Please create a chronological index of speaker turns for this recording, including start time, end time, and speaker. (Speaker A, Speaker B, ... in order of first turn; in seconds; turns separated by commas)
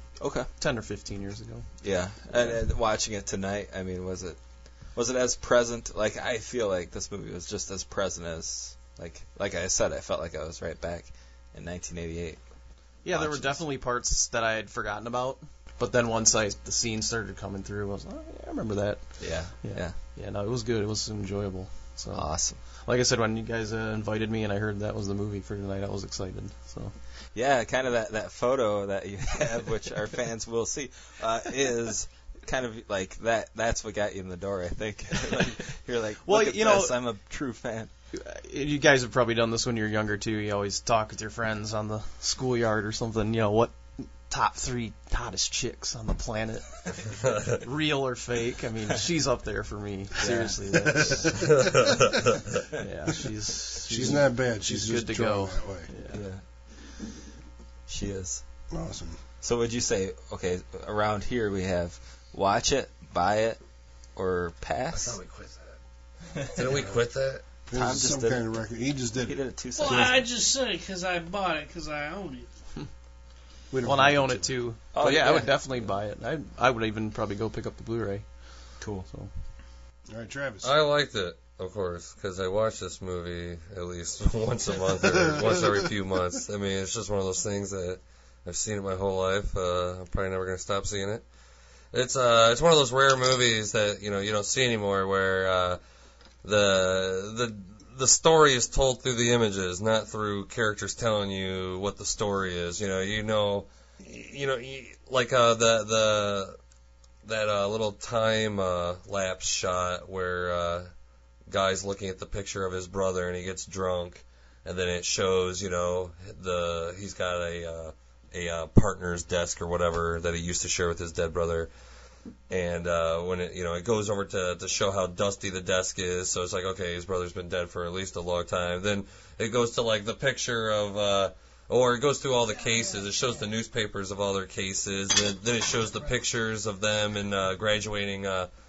Speaker A: 0.2-0.5, Speaker B: 0.6-1.7, Speaker A: 1.8-4.4, Speaker B: 2.3-2.6, Speaker A: 4.9-12.4, Speaker B: 13.0-26.9, Speaker A: 13.1-13.6, Speaker A: 19.2-20.0, Speaker A: 22.1-22.6, Speaker A: 27.3-37.9, Speaker B: 36.2-37.0, Speaker B: 38.1-51.7, Speaker A: 50.2-50.6, Speaker C: 50.8-51.5, Speaker D: 51.5-52.3, Speaker B: 52.8-56.2, Speaker C: 53.9-55.9, Speaker A: 56.1-56.4, Speaker A: 57.9-58.4, Speaker C: 58.7-59.2, Speaker A: 59.4-63.6, Speaker A: 64.2-65.2, Speaker D: 64.9-65.7, Speaker D: 66.5-67.4, Speaker C: 67.7-70.2, Speaker A: 67.7-68.5, Speaker A: 69.2-70.2, Speaker E: 69.7-72.5, Speaker C: 73.7-74.6, Speaker B: 73.8-78.3, Speaker A: 74.9-75.9, Speaker A: 78.8-79.1, Speaker C: 80.1-80.7, Speaker D: 80.6-91.2, Speaker C: 85.0-85.8, Speaker D: 91.9-95.8, Speaker D: 96.4-106.6, Speaker D: 107.2-110.9, Speaker D: 111.5-121.7, Speaker D: 122.5-138.5